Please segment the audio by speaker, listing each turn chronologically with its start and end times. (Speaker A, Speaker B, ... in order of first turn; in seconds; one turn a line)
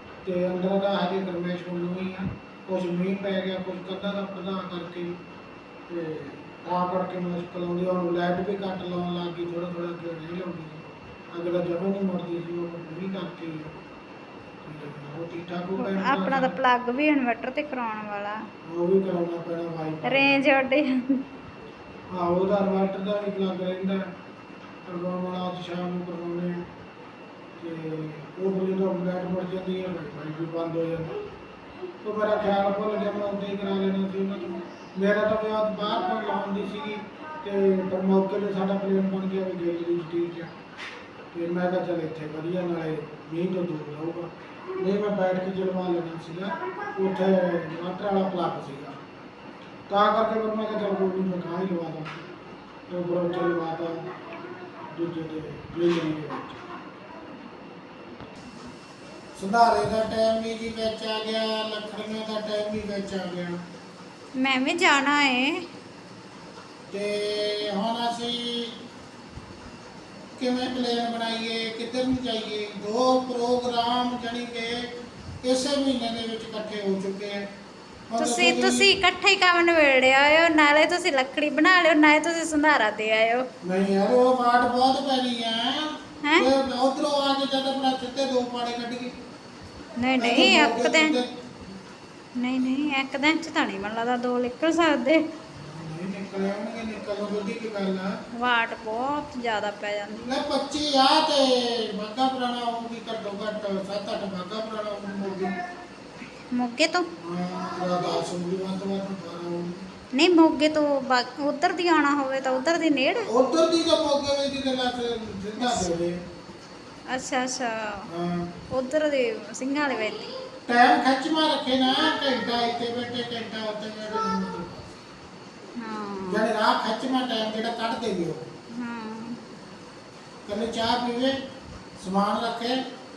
Speaker A: 0.2-5.2
Speaker A: 5.9-13.8
Speaker A: 14.6-16.6
Speaker B: 15.8-18.4
Speaker A: 18.7-20.4
Speaker B: 20.1-20.9
Speaker A: 22.1-24.0
Speaker A: 24.9-26.6
Speaker A: 27.6-31.1
Speaker A: 32.0-40.5
Speaker A: 41.3-49.0
Speaker A: 49.9-52.2
Speaker A: 52.9-54.1
Speaker A: 54.9-56.6
Speaker A: 59.4-63.6
Speaker B: 64.4-65.6
Speaker A: 66.9-68.7
Speaker A: 70.4-74.9
Speaker A: 75.4-77.5
Speaker A: 78.1-78.9
Speaker B: 78.2-83.5
Speaker A: 83.6-89.1
Speaker B: 86.2-86.5
Speaker B: 90.0-91.2
Speaker A: 90.2-91.3
Speaker B: 92.4-95.2
Speaker A: 95.5-98.1
Speaker B: 98.4-100.3
Speaker A: 100.2-105.6
Speaker B: 106.5-107.1
Speaker A: 107.2-109.8
Speaker B: 110.2-113.3
Speaker A: 113.3-116.2
Speaker B: 115.6-115.9
Speaker B: 117.1-118.0
Speaker A: 118.1-118.5
Speaker B: 118.7-120.3
Speaker A: 120.7-124.8
Speaker B: 125.8-126.5
Speaker A: 126.3-128.4
Speaker B: 128.8-129.4
Speaker A: 130.5-131.3
Speaker A: 132.0-132.8